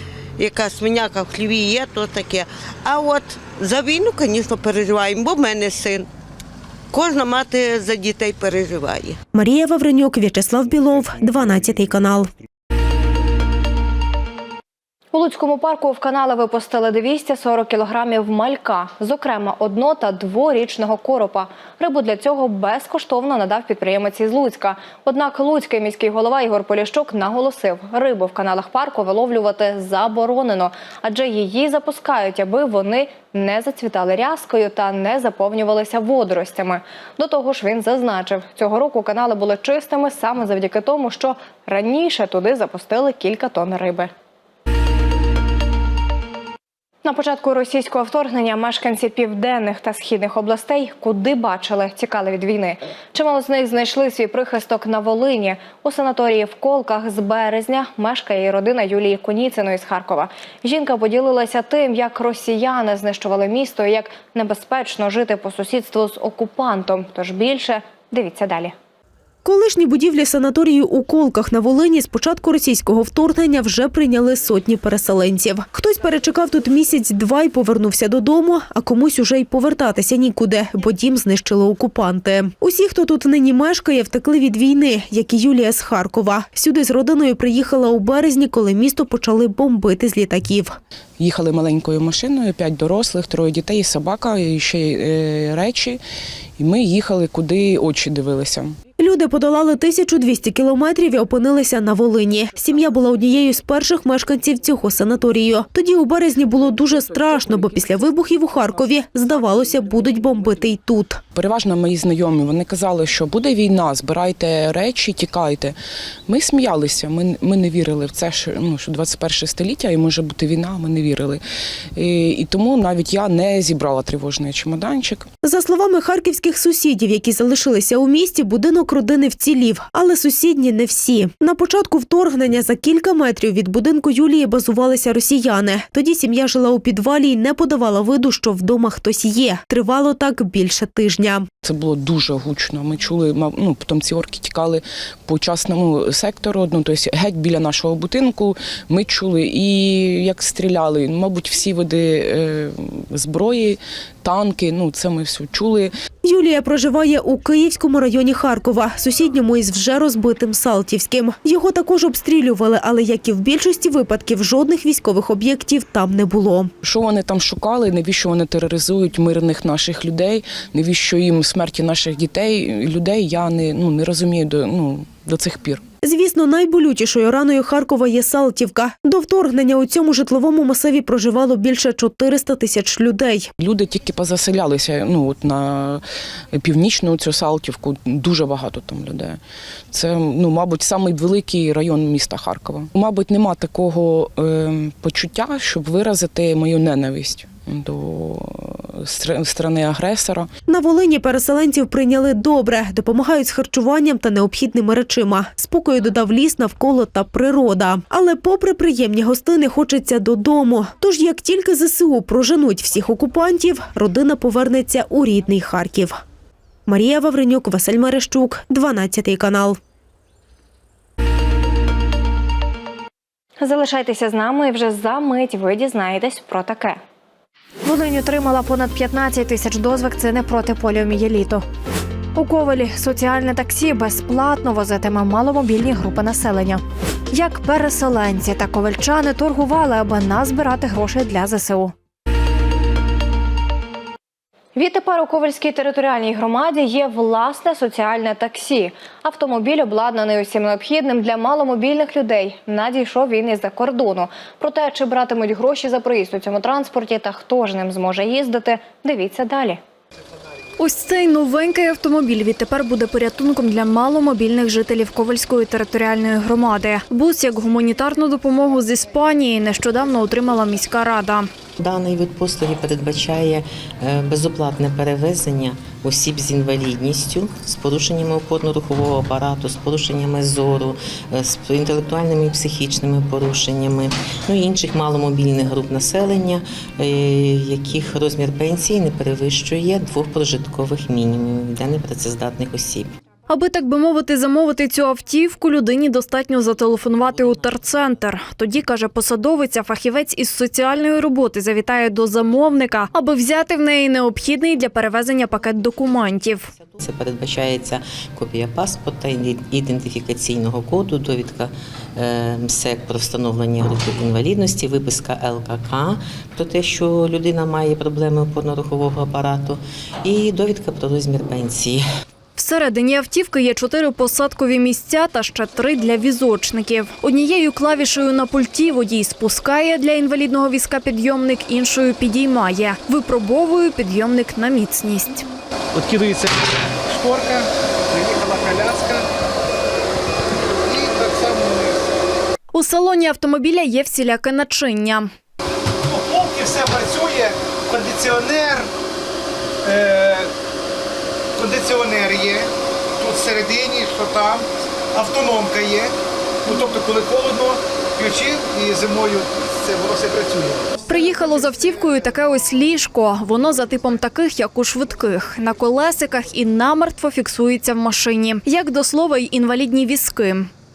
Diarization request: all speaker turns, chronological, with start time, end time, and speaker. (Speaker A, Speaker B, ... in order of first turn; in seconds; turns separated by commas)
Speaker A: 0.4-6.1, Speaker A: 6.9-9.2, Speaker B: 9.3-12.3, Speaker C: 15.1-44.1, Speaker C: 47.0-68.7, Speaker B: 69.4-90.8, Speaker D: 91.2-96.0, Speaker D: 96.6-98.8, Speaker B: 99.0-111.2, Speaker D: 111.3-115.7, Speaker D: 116.3-121.4, Speaker D: 121.9-125.3, Speaker B: 125.4-141.5, Speaker D: 141.6-155.9, Speaker B: 156.2-166.7, Speaker D: 166.8-175.8, Speaker B: 176.0-183.5, Speaker D: 183.6-189.4, Speaker D: 189.9-200.5, Speaker B: 200.7-216.2, Speaker B: 216.9-219.8, Speaker C: 223.6-227.0, Speaker C: 227.8-231.6, Speaker C: 232.3-241.9, Speaker C: 244.8-259.8, Speaker E: 260.8-271.5, Speaker F: 271.8-293.1, Speaker E: 293.5-306.7, Speaker F: 296.8-298.2, Speaker F: 306.5-322.0, Speaker E: 322.6-335.4, Speaker G: 335.9-339.2, Speaker G: 340.8-342.1, Speaker E: 342.7-345.3, Speaker G: 346.1-348.9, Speaker G: 349.8-350.5, Speaker G: 351.6-356.1, Speaker G: 356.6-361.0, Speaker E: 361.1-370.7